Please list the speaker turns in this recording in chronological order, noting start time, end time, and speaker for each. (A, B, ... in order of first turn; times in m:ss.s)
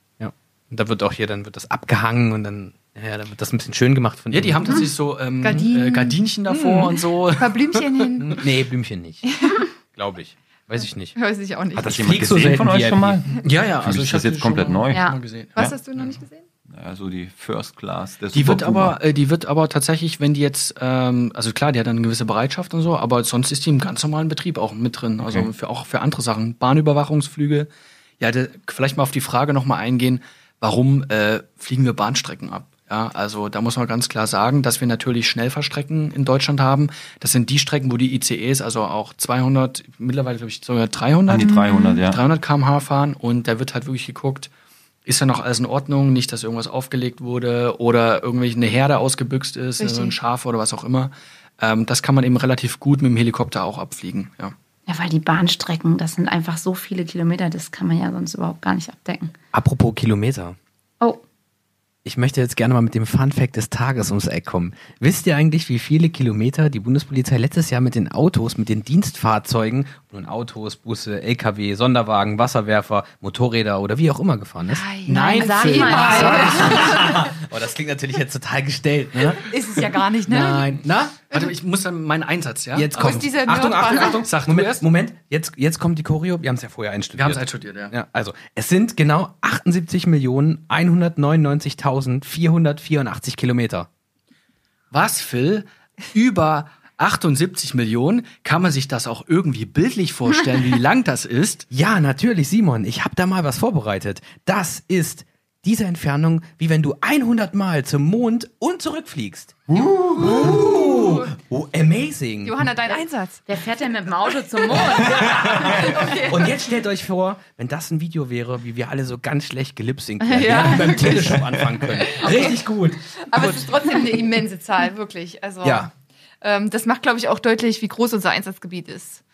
0:00.2-0:04.8 A
0:04.3-0:08.3 B
0:05.4-0:06.2 C
0:06.5-0:06.9 A
0:07.4-0:08.4 C
0:08.3-0:11.2 A
0:09.4-0:09.7 C
0:11.2-0:12.2 C
0:11.7-0:13.2 A
0:11.8-0:15.0 D
0:13.4-0:16.0 B
0:14.9-0:15.2 E
0:15.6-0:16.4 C
0:16.7-0:19.0 D
0:18.3-0:44.5 B
0:25.2-0:25.5 D
0:41.3-0:42.2 D
0:41.5-0:42.0 C
0:45.0-0:54.5 B
0:49.8-0:50.2 C
0:54.9-0:59.3 E
0:59.5-1:00.6 A
1:02.0-1:14.9 A
1:14.7-1:17.2 C
1:15.1-1:16.9 B
1:15.3-1:16.9 E
1:15.9-1:21.2 A
1:19.4-1:20.7 C
1:20.4-1:20.8 B
1:21.3-1:23.5 B
1:22.7-1:33.9 A
1:23.0-1:24.2 C
1:24.2-1:24.9 B
1:27.2-1:27.9 B
1:34.9-1:41.7 B
1:41.7-1:52.6 A
1:50.2-1:51.3 C
1:52.4-1:53.4 C
1:53.5-1:56.0 E
1:55.0-2:03.6 A
1:55.1-1:56.6 C
2:00.2-2:02.6 C
2:03.2-2:09.2 C
2:05.6-2:05.9 A